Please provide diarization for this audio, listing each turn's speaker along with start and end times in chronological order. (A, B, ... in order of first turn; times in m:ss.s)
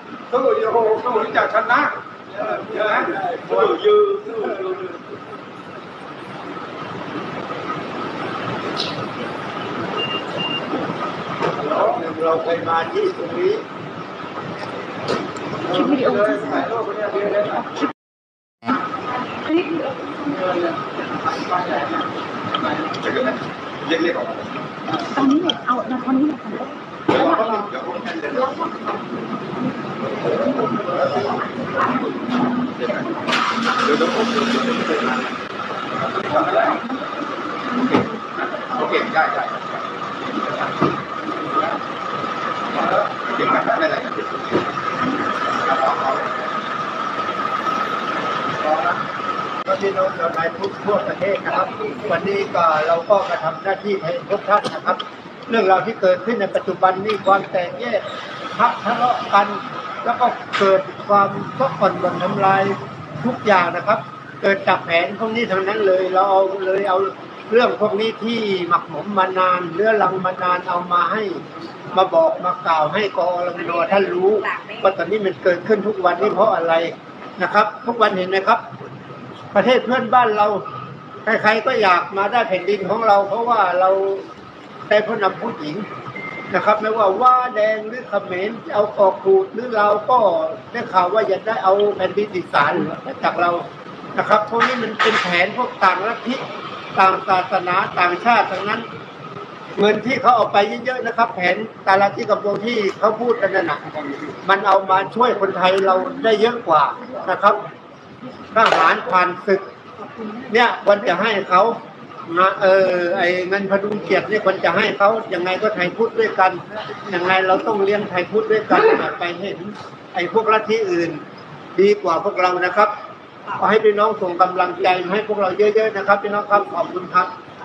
0:00.3-0:03.4 A
0:02.8-0:04.9 B
0:11.6-0:13.6 C
0:15.6-0:17.8 A
0:15.7-0:16.7 D
0:19.4-0:20.2 D
0:20.4-0:20.7 A
0:21.5-0:21.8 A
0:22.9-0:24.6 B
0:25.1-0:27.6 D
0:27.1-0:28.7 B
0:32.8-0:35.3 B
0:36.2-0:36.6 B
0:36.3-0:36.7 A
0:37.7-0:39.8 B
0:43.2-0:44.6 B
0:45.6-0:46.4 B
0:49.6-1:18.6 C
1:13.6-1:14.9 D
1:19.5-1:20.6 C
1:21.2-1:24.2 C
1:24.9-1:25.8 C
1:26.5-1:36.4 C
1:37.0-1:38.9 C
1:39.8-1:43.8 C
1:44.4-1:47.6 C
1:48.5-1:49.6 C
1:50.2-2:01.2 C
2:01.8-2:02.9 C
2:03.5-2:07.3 C